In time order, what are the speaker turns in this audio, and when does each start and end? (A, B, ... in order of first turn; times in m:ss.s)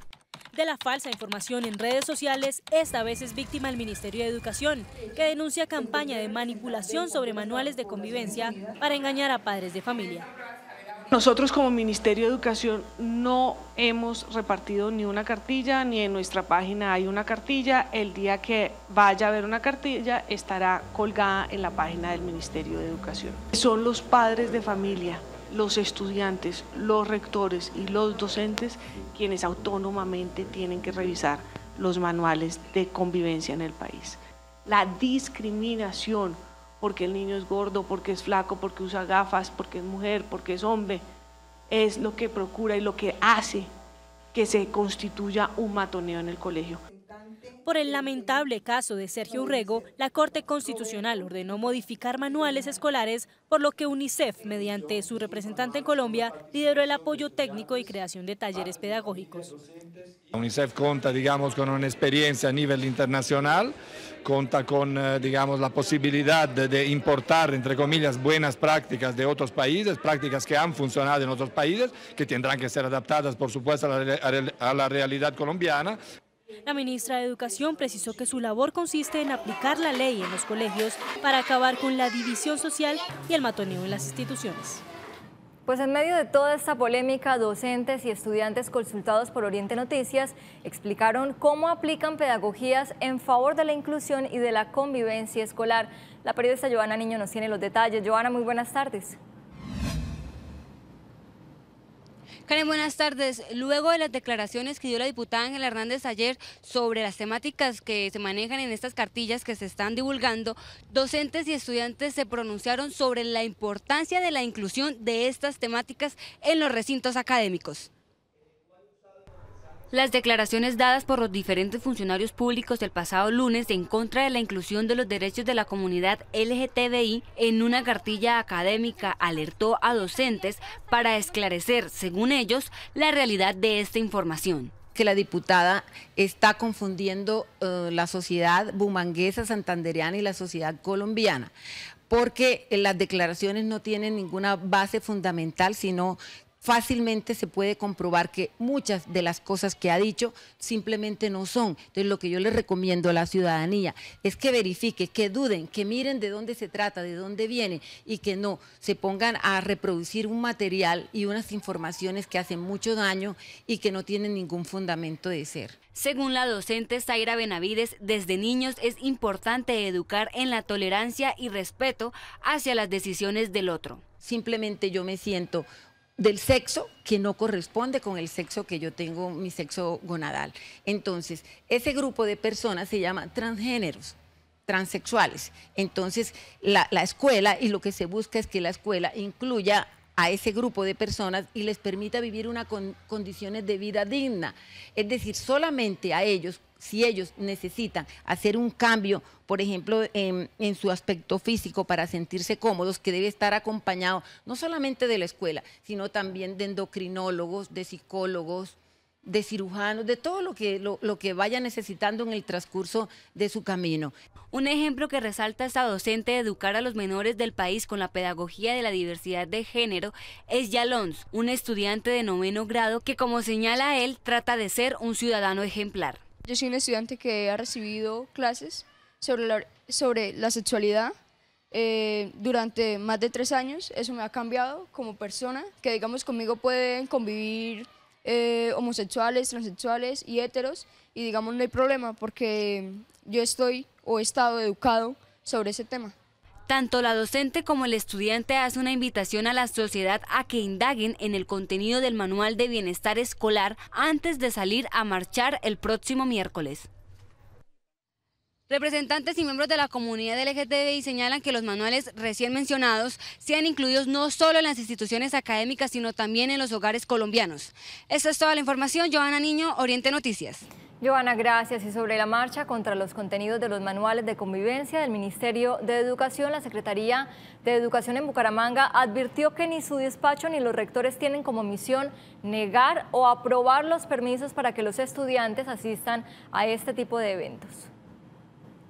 0:00.5-0:10.3 A
0:11.1-0:41.0 B
0:41.7-0:43.7 B
0:44.3-0:46.8 B
0:47.6-0:59.5 A
1:00.3-1:16.0 C
1:16.7-1:24.8 A
1:25.7-1:39.2 D
1:42.5-1:57.9 E
1:59.9-2:14.7 E
2:15.0-2:21.5 F
2:22.1-2:45.8 F
2:45.9-2:54.0 E
2:54.2-2:55.7 F
2:56.2-3:04.1 F
3:04.7-3:34.1 F
3:34.5-3:46.2 E
3:46.4-3:51.2 G
3:51.7-4:06.2 G
4:06.7-4:16.9 E
4:18.7-4:30.6 E
4:31.0-4:47.9 D